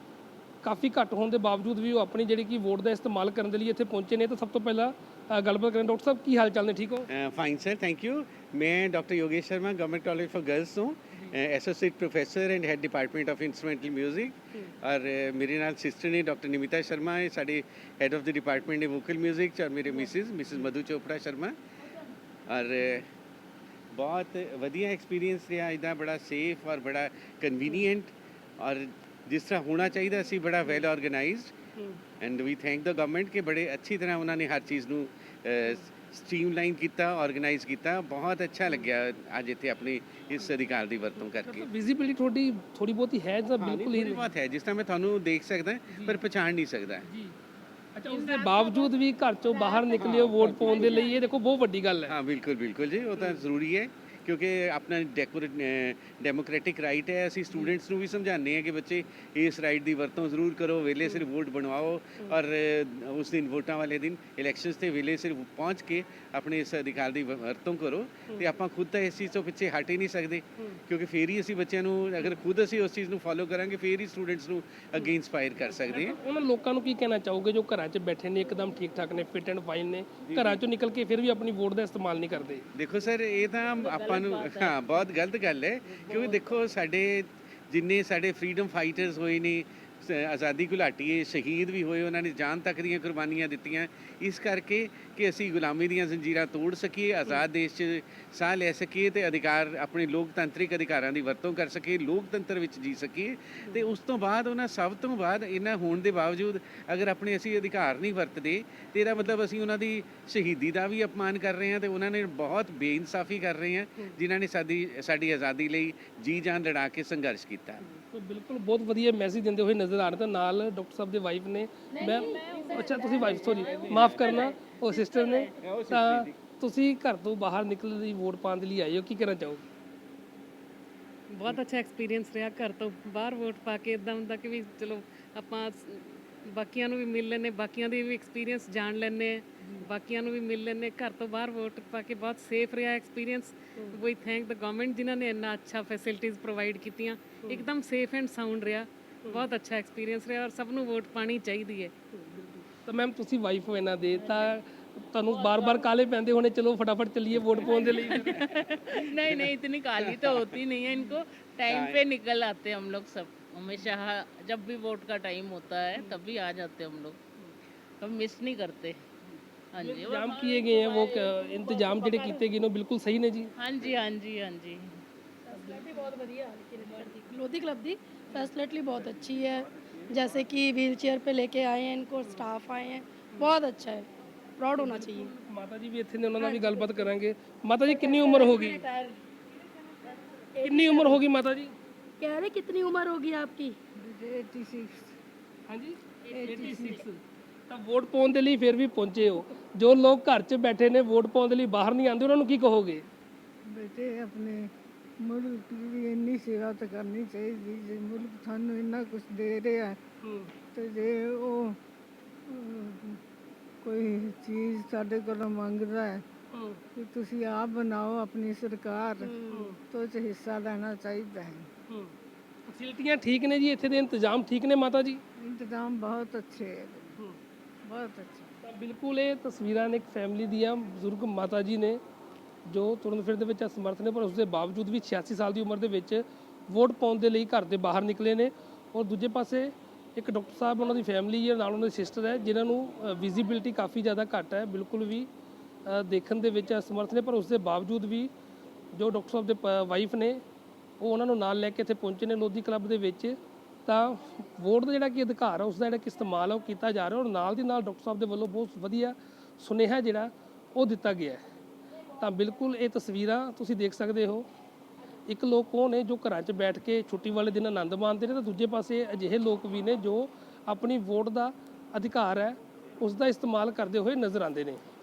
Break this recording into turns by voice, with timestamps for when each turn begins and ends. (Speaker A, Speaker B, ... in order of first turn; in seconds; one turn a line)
Speaker A: 0.6-7.1
Speaker B: 7.1-21.6
Speaker B: 22.5-23.1
Speaker B: 23.9-31.5
Speaker B: 32.2-41.7
Speaker A: 41.5-44.3
Speaker B: 43.6-47.0
Speaker A: 45.9-46.2
Speaker A: 47.0-47.3
Speaker A: 48.0-52.1
Speaker C: 48.1-48.9
Speaker D: 49.8-50.0
Speaker B: 50.0-50.8
Speaker B: 52.1-76.2
Speaker A: 75.9-82.7
Speaker B: 80.3-80.6
Speaker B: 82.8-117.8
Speaker E: 83.7-85.0
Speaker E: 86.0-86.5
Speaker A: 117.9-129.7
Speaker D: 121.9-124.1
Speaker E: 122.2-124.5
Speaker B: 123.2-124.4
Speaker B: 125.6-126.4
Speaker C: 131.3-151.9
Speaker A: 152.1-158.4
Speaker E: 155.3-155.9
Speaker E: 157.6-167.2
Speaker B: 159.2-160.6
Speaker B: 161.7-162.0
Speaker E: 168.0-169.1
Speaker E: 169.7-171.3
Speaker A: 169.8-173.5
Speaker D: 171.8-172.2
Speaker E: 173.6-174.9
Speaker D: 175.5-185.3
Speaker A: 184.8-188.8
Speaker D: 186.4-187.1
Speaker E: 188.2-189.2
Speaker D: 190.6-191.2
Speaker A: 190.6-191.7
Speaker D: 192.2-193.8
Speaker F: 194.0-195.1
Speaker A: 195.7-203.1
Speaker F: 196.3-197.0
Speaker F: 203.7-210.0
Speaker A: 210.2-210.5
Speaker F: 210.7-211.8
Speaker F: 212.5-213.2
Speaker F: 213.8-216.2
Speaker A: 216.5-216.8
Speaker F: 216.9-221.7
Speaker D: 219.2-219.7
Speaker A: 219.5-219.8
Speaker A: 221.9-222.1
Speaker A: 222.7-225.2
Speaker F: 225.4-227.2
Speaker F: 227.8-228.5
Speaker A: 228.6-232.0
Speaker A: 232.7-245.3
Speaker A: 245.9-248.3
Speaker A: 248.9-250.4
Speaker A: 251.0-261.4
Speaker A: 262.2-264.5
Speaker A: 265.3-274.8